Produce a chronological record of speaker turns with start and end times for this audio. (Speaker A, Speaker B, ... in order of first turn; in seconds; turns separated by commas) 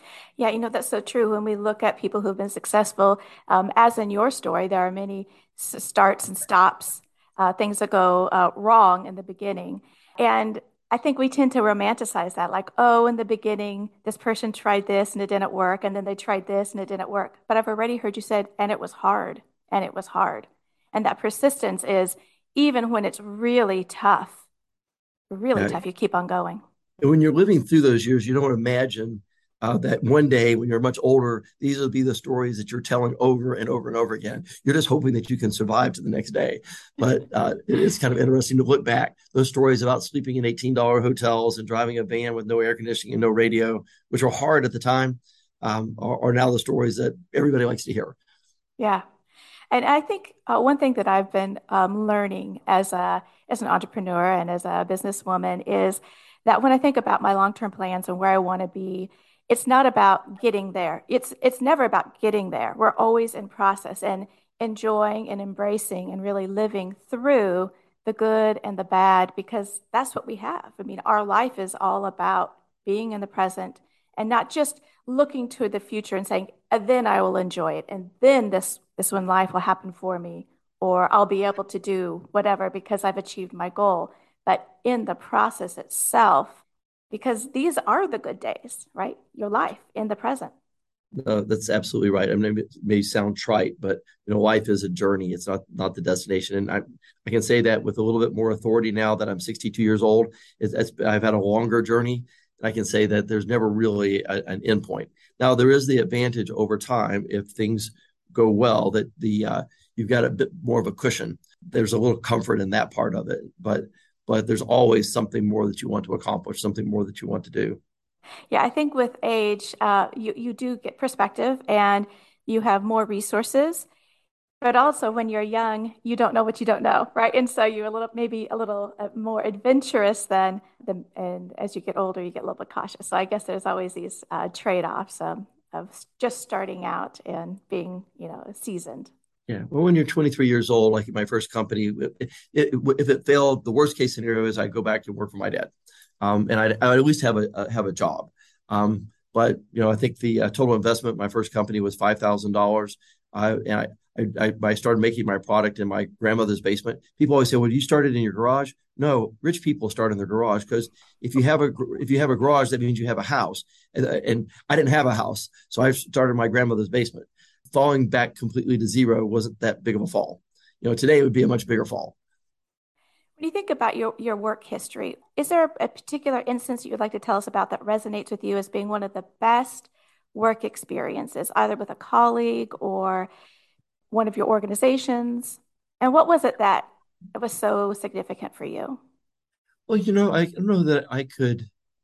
Speaker A: 0.4-24.4, Speaker A: 25.3-26.6, Speaker B: 27.0-48.2, Speaker A: 48.8-49.0, Speaker A: 49.7-90.5, Speaker B: 91.1-117.8, Speaker A: 118.5-123.9, Speaker A: 124.6-139.1, Speaker B: 139.5-172.2, Speaker A: 173.4-183.3, Speaker A: 184.1-189.0, Speaker B: 189.9-191.7